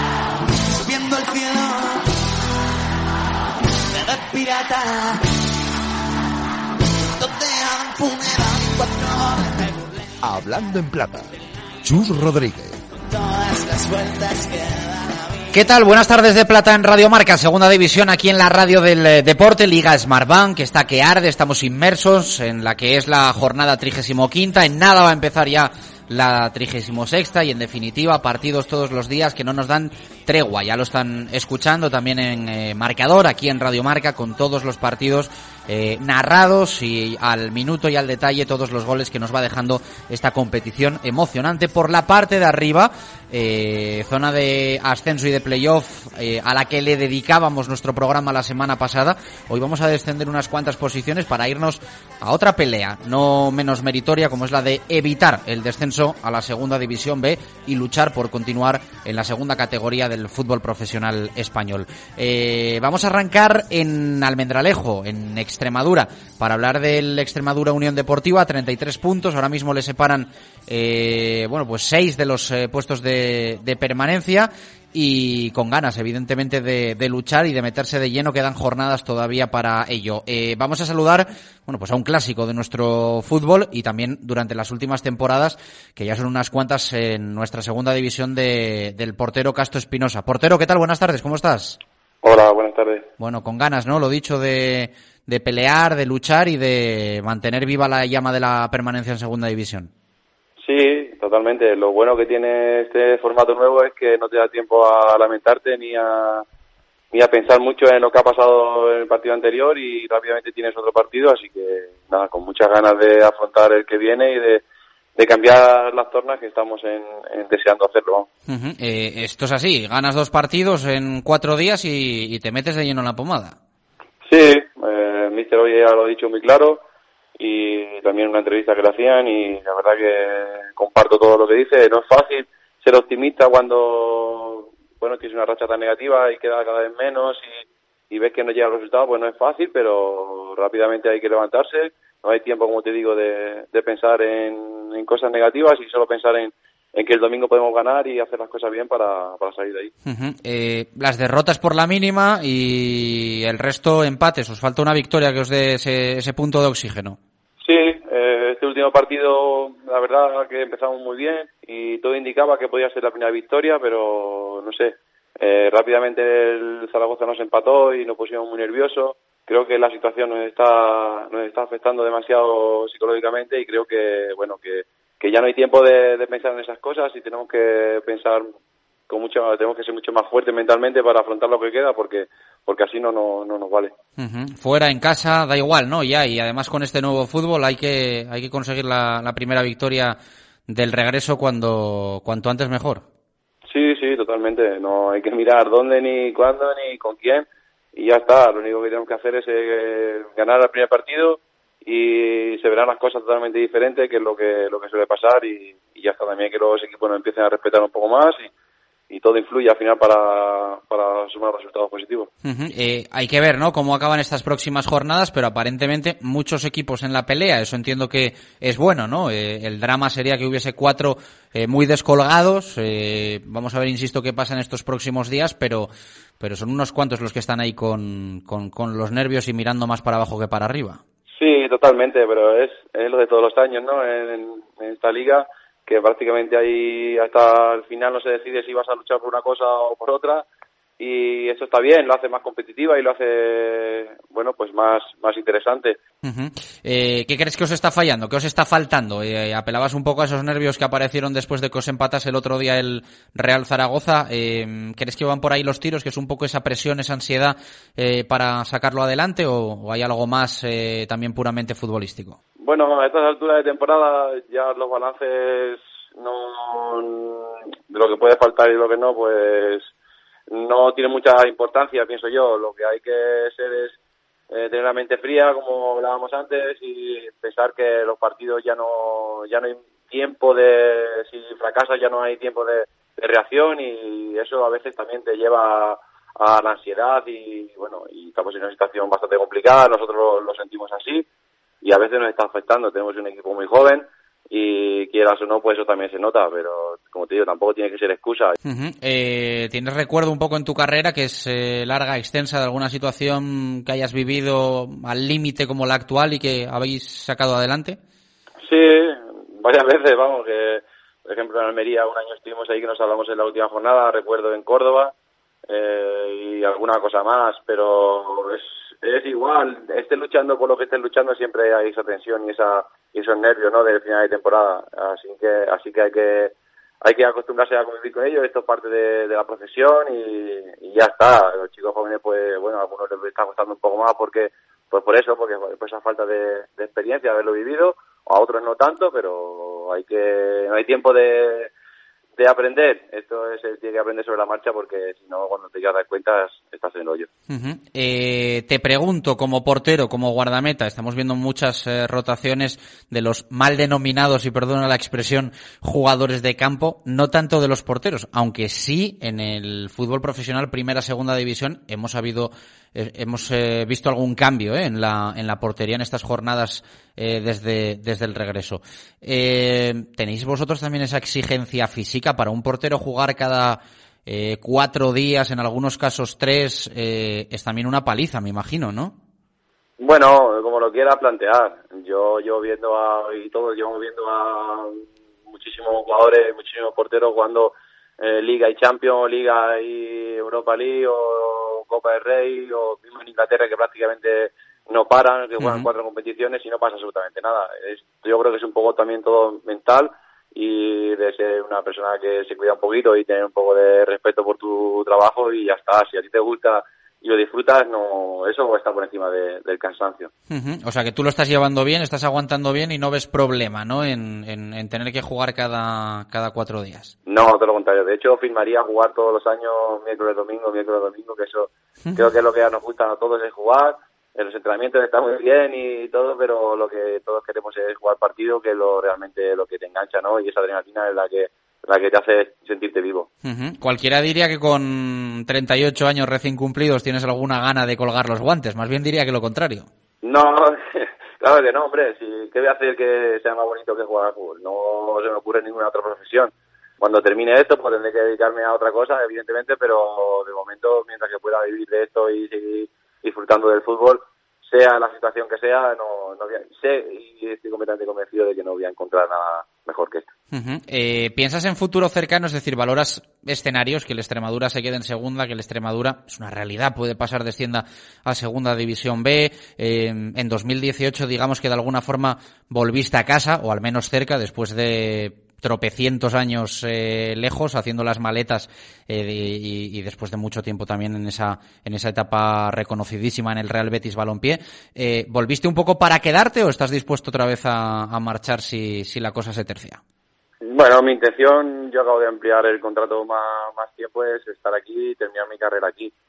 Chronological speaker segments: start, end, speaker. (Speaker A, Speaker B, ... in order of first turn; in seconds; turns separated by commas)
Speaker A: 0.7-2.2, Speaker A: 3.9-5.3, Speaker A: 7.2-10.2, Speaker B: 10.2-11.3, Speaker B: 11.8-12.8, Speaker A: 13.0-15.5, Speaker C: 15.5-91.8, Speaker D: 92.2-93.0, Speaker C: 93.2-99.9, Speaker D: 100.6-106.4, Speaker D: 107.1-114.6, Speaker D: 115.2-118.3, Speaker C: 118.5-123.5, Speaker D: 124.2-126.8, Speaker D: 127.4-149.9, Speaker C: 150.1-157.2, Speaker D: 157.6-178.5, Speaker D: 179.1-183.9, Speaker C: 184.2-190.2, Speaker C: 190.7-193.0, Speaker D: 193.7-208.5, Speaker D: 209.1-212.3, Speaker C: 212.4-231.0, Speaker D: 231.3-240.4, Speaker D: 241.0-246.0, Speaker C: 246.2-262.4, Speaker D: 262.6-269.9, Speaker D: 270.5-274.0, Speaker D: 274.5-291.3, Speaker D: 291.8-298.6, Speaker C: 298.6-308.0, Speaker D: 308.6-315.1, Speaker D: 315.7-341.7, Speaker D: 342.4-347.3, Speaker C: 347.5-379.1, Speaker D: 380.0-410.3, Speaker C: 395.6-395.9, Speaker C: 410.5-417.1, Speaker D: 417.2-433.3, Speaker C: 433.4-439.9, Speaker D: 440.2-460.3, Speaker C: 460.5-490.0, Speaker D: 490.6-496.1